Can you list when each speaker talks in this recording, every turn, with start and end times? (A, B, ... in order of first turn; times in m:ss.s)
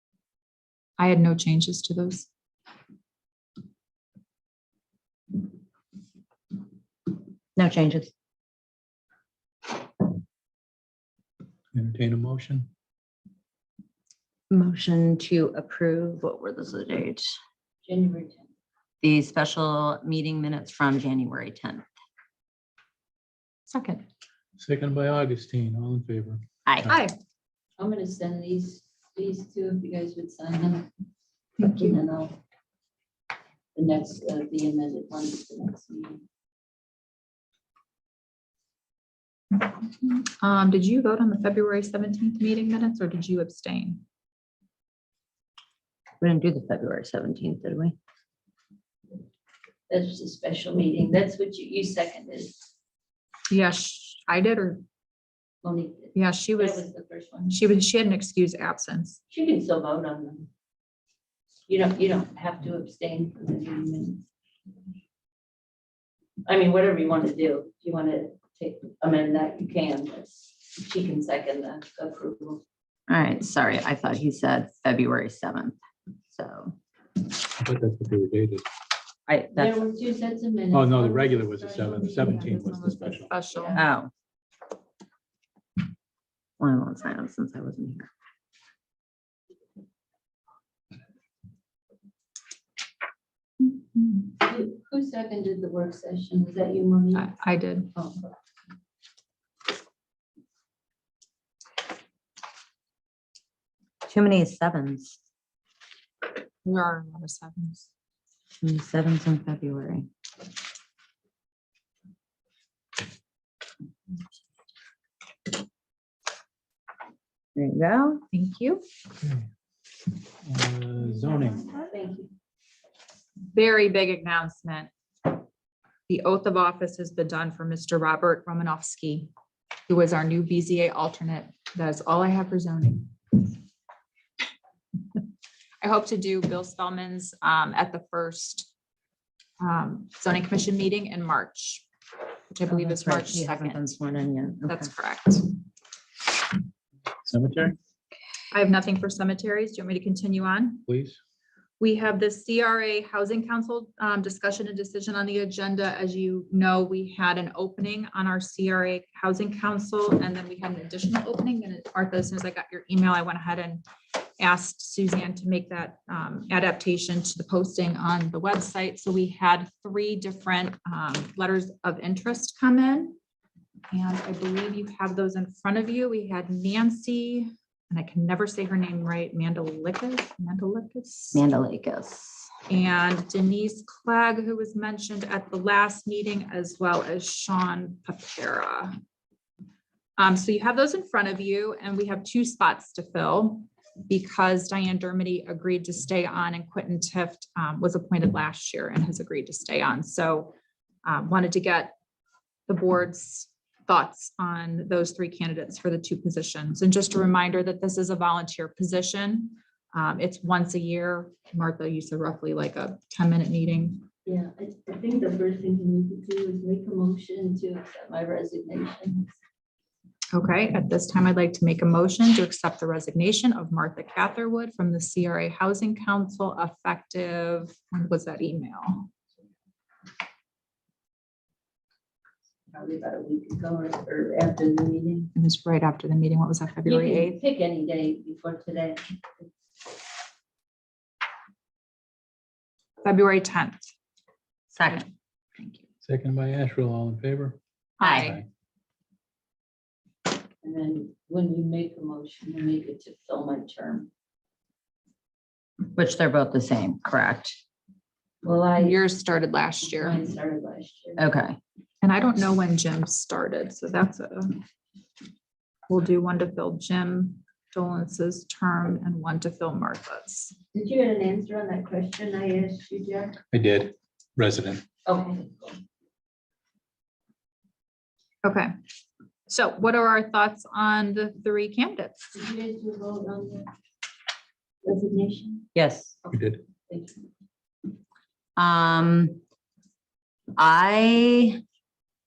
0:01.0-0:02.3 A
0:07.6-0:08.1 B
0:11.7-0:12.7 C
0:14.5-0:17.2 B
0:17.8-0:18.5 D
0:19.0-0:21.8 B
0:23.7-0:24.0 A
0:24.6-0:26.9 C
0:26.9-0:27.1 A
0:27.8-0:30.9 D
0:31.6-0:32.4 D
0:31.6-0:32.0 A
0:33.7-0:36.2 D
0:39.6-0:44.0 A
0:46.2-0:48.0 B
0:49.9-0:52.6 D
0:53.5-0:54.8 A
0:55.6-0:57.5 D
0:56.1-0:56.8 A
0:57.4-0:59.2 A
0:59.3-1:00.5 D
1:01.7-1:04.2 D
1:06.4-1:12.6 D
1:13.1-1:15.8 B
1:16.3-1:16.8 B
1:17.6-1:18.6 C
1:19.3-1:19.8 B
1:19.6-1:22.5 D
1:20.7-1:23.4 C
1:22.1-1:23.8 A
1:23.5-1:23.8 D
1:23.7-1:24.1 B
1:26.6-1:28.1 B
1:33.7-1:34.2 A
1:34.4-1:37.3 D
1:37.1-1:37.9 A
1:37.9-1:38.2 D
1:44.0-1:45.2 B
1:46.6-1:47.9 A
1:48.6-1:50.1 B
1:57.6-1:58.2 B
1:58.3-1:58.8 A
1:59.2-1:59.5 C
2:00.4-2:01.7 C
2:01.3-2:01.6 A
2:01.7-2:02.3 D
2:03.5-2:04.9 A
2:06.1-2:09.3 A
2:09.9-2:13.4 A
2:15.8-2:18.7 A
2:19.6-2:21.8 A
2:22.5-2:23.9 A
2:22.7-2:24.9 B
2:24.6-2:25.5 A
2:27.2-2:27.8 C
2:28.5-2:30.8 A
2:30.9-2:31.2 C
2:31.8-2:43.8 A
2:44.4-2:53.2 A
2:53.9-3:01.4 A
3:01.3-3:02.5 B
3:02.7-3:09.0 A
3:10.2-3:20.5 A
3:21.0-3:21.9 A
3:22.7-3:34.0 A
3:34.2-3:39.4 D
3:40.3-3:49.1 A
3:52.7-3:55.3 D
3:55.3-3:57.4 A
3:56.8-3:59.2 D
4:03.0-4:03.8 A
4:04.7-4:05.0 B
4:04.9-4:05.8 A
4:06.0-4:07.6 C
4:08.0-4:08.4 A
4:08.0-4:08.4 B
4:10.6-4:14.1 D
4:15.9-4:17.6 B
4:18.4-4:19.0 D
4:18.8-4:20.2 A
4:19.9-4:21.2 D
4:21.2-4:21.6 B
4:22.0-4:24.6 A
4:25.9-4:30.6 A
4:30.7-4:33.4 D
4:33.5-4:34.8 C
4:35.0-4:35.8 D
4:38.4-4:38.7 A
4:39.5-4:42.2 A
4:42.3-4:43.7 D
4:44.8-4:45.6 D
4:45.7-4:46.2 B
4:46.3-4:46.6 C
4:46.9-4:47.2 D
4:48.6-4:49.4 B
4:50.6-4:51.6 B